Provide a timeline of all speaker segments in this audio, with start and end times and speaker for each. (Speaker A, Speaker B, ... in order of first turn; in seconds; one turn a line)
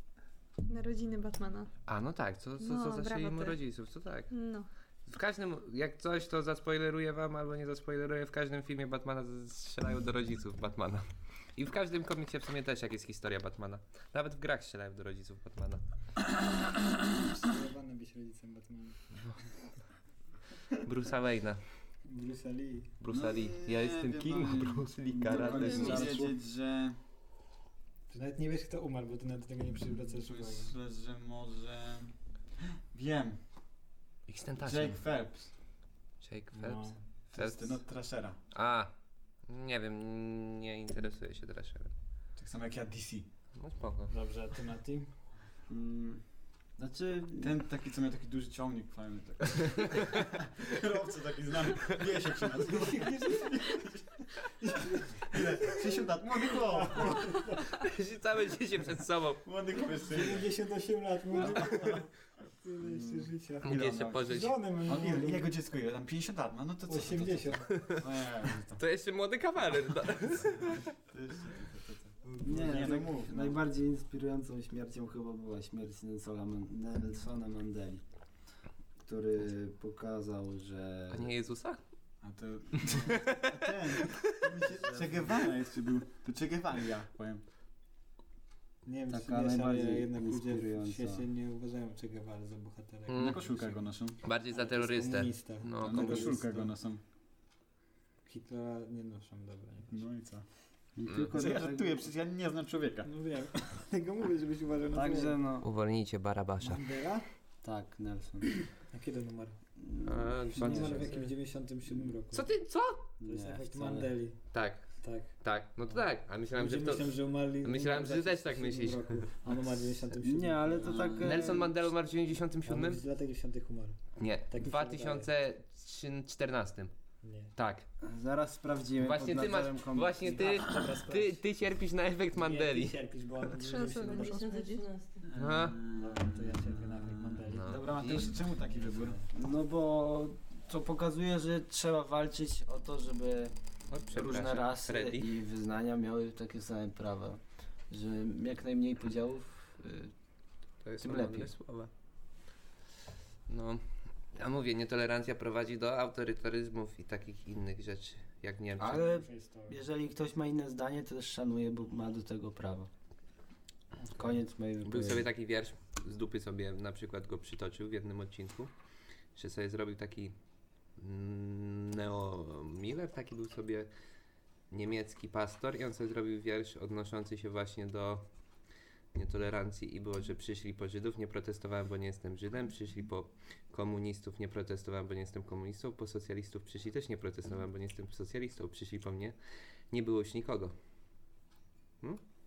Speaker A: 0.7-1.7
Speaker B: 1.9-4.3
Speaker A: 2.6-3.6
Speaker A: 4.3-4.7
Speaker B: 5.1-15.8
Speaker C: 17.4-19.0
Speaker B: 20.8-21.6
Speaker C: 22.0-22.9
Speaker B: 23.0-26.2
Speaker D: 23.1-27.0
Speaker E: 25.3-26.3
Speaker A: 25.6-25.8
Speaker C: 28.1-30.7
Speaker D: 30.0-32.1
Speaker D: 32.9-33.4
Speaker B: 34.3-35.0
Speaker D: 34.6-35.5
Speaker B: 36.2-37.8
Speaker C: 36.5-37.0
Speaker D: 37.3-38.4
Speaker B: 38.5-38.9
Speaker B: 39.5-41.9
Speaker D: 42.4-43.3
Speaker B: 43.5-44.1
Speaker C: 44.1-45.1
Speaker E: 45.7-47.5
Speaker D: 47.4-57.4
Speaker C: 52.6-53.6
Speaker C: 54.7-55.8
Speaker C: 56.7-57.6
Speaker B: 57.7-59.4
Speaker D: 59.4-60.5
Speaker C: 60.1-62.1
Speaker D: 61.3-62.0
Speaker C: 62.6-65.5
Speaker D: 62.8-68.8
Speaker B: 63.6-64.6
Speaker C: 66.9-67.8
Speaker B: 67.7-68.0
Speaker B: 68.8-70.8
Speaker D: 71.0-73.6
Speaker C: 72.2-73.1
Speaker E: 72.4-81.3
Speaker B: 81.1-81.8
Speaker D: 82.2-87.4
Speaker B: 82.9-83.4
Speaker C: 88.8-93.7
Speaker E: 89.1-91.2
Speaker B: 93.1-96.4
Speaker D: 93.2-94.2
Speaker C: 94.5-96.7
Speaker D: 95.8-97.0
Speaker C: 98.2-100.0
Speaker D: 99.9-100.5
Speaker E: 101.0-102.0
Speaker D: 101.3-103.1
Speaker C: 103.0-105.4
Speaker E: 104.9-105.7
Speaker B: 105.6-106.9
Speaker C: 106.6-107.3
Speaker E: 107.6-108.8
Speaker C: 108.8-109.6
Speaker E: 109.8-111.2
Speaker B: 110.0-111.3
Speaker C: 110.5-112.5
Speaker B: 112.3-113.1
Speaker E: 113.2-114.1
Speaker C: 113.2-114.4
Speaker B: 114.5-119.2
Speaker C: 115.0-121.2
Speaker E: 120.2-121.7
Speaker D: 120.8-121.4
Speaker B: 121.2-123.0
Speaker C: 122.7-125.3
Speaker B: 124.2-126.9
Speaker C: 127.2-127.5
Speaker B: 127.5-127.8
Speaker E: 128.0-130.6
Speaker B: 129.0-132.9
Speaker C: 130.2-131.4
Speaker C: 132.3-134.7
Speaker A: 133.5-134.9
Speaker D: 135.2-139.2
Speaker B: 135.3-135.8
Speaker C: 135.9-139.3
Speaker B: 137.5-138.3
Speaker E: 139.3-143.5
Speaker B: 143.9-145.3
Speaker E: 144.1-150.1
Speaker B: 150.8-151.8
Speaker E: 151.0-151.9
Speaker B: 153.5-159.1
Speaker E: 158.8-162.9
Speaker C: 158.9-159.8
Speaker C: 163.9-164.4
Speaker E: 164.2-165.2
Speaker B: 164.8-168.7
Speaker B: 169.3-170.3
Speaker B: 170.9-173.9
Speaker B: 174.7-178.3
Speaker B: 179.1-190.7